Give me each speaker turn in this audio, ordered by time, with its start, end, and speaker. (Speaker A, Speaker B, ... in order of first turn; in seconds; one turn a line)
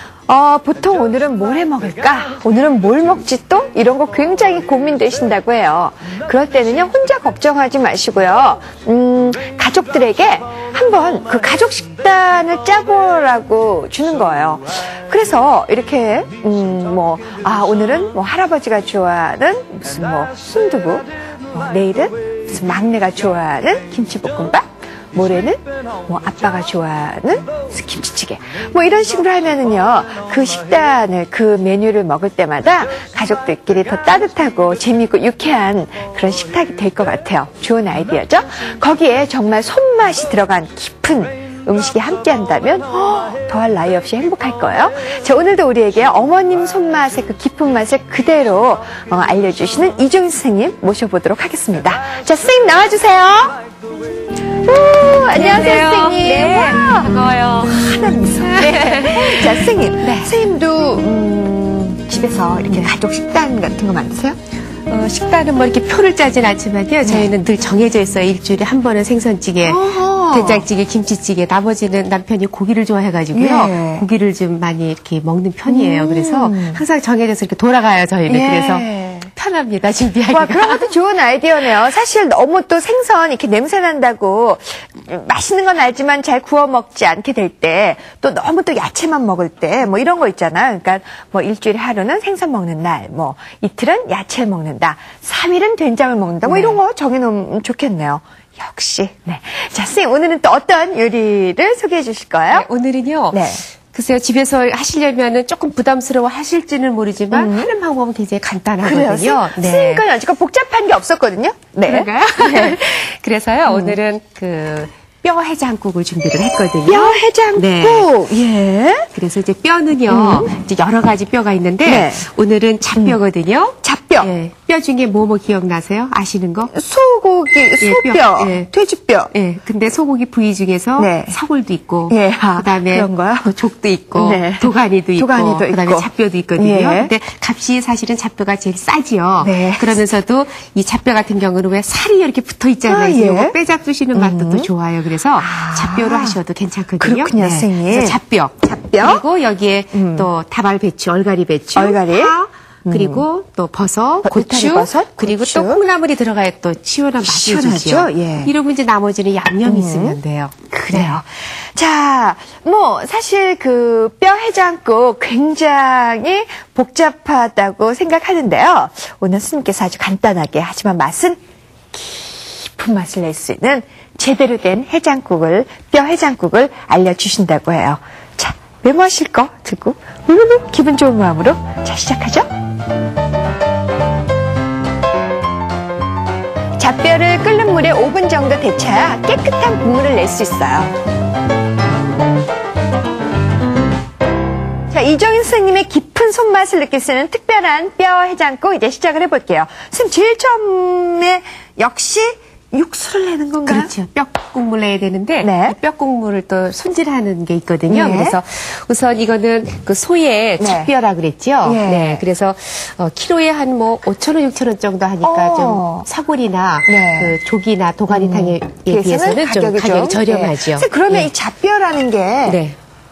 Speaker A: 0.3-53.6
Speaker A: 54.5-64.4
Speaker B: 55.3-60.3
Speaker B: 64.9-80.8
Speaker A: 67.0-67.3
Speaker A: 69.6-70.7
Speaker A: 73.3-74.1
Speaker A: 75.7-76.8
Speaker A: 78.3-79.3
Speaker A: 80.3-102.7
Speaker B: 96.5-96.8
Speaker B: 102.5-110.0
Speaker A: 103.3-103.6
Speaker A: 107.3-107.7
Speaker A: 108.8-112.8
Speaker B: 111.9-118.1
Speaker A: 113.7-114.0
Speaker A: 116.9-119.1
Speaker B: 119.1-126.7
Speaker A: 120.1-120.5
Speaker A: 121.8-122.3
Speaker A: 123.8-124.3
Speaker A: 126.7-129.3
Speaker B: 127.8-128.7
Speaker B: 129.3-161.2
Speaker A: 131.0-131.3
Speaker A: 132.1-133.5
Speaker A: 134.1-137.1
Speaker A: 139.4-140.0
Speaker A: 142.9-143.6
Speaker A: 144.1-144.7
Speaker A: 145.4-146.4
Speaker A: 147.0-149.2
Speaker A: 149.9-150.3
Speaker A: 151.8-153.3
Speaker A: 154.2-155.8
Speaker A: 157.2-158.5
Speaker A: 159.7-160.2
Speaker A: 160.7-171.4
Speaker A: 171.9-182.5
Speaker A: 186.8-191.0
Speaker A: 194.9-203.9
Speaker B: 203.7-221.3
Speaker A: 205.4-205.8
Speaker A: 207.9-208.4
Speaker A: 210.6-210.9
Speaker A: 211.6-212.3
Speaker A: 215.2-216.1
Speaker A: 216.9-217.4
Speaker A: 218.1-222.6
Speaker B: 222.5-222.8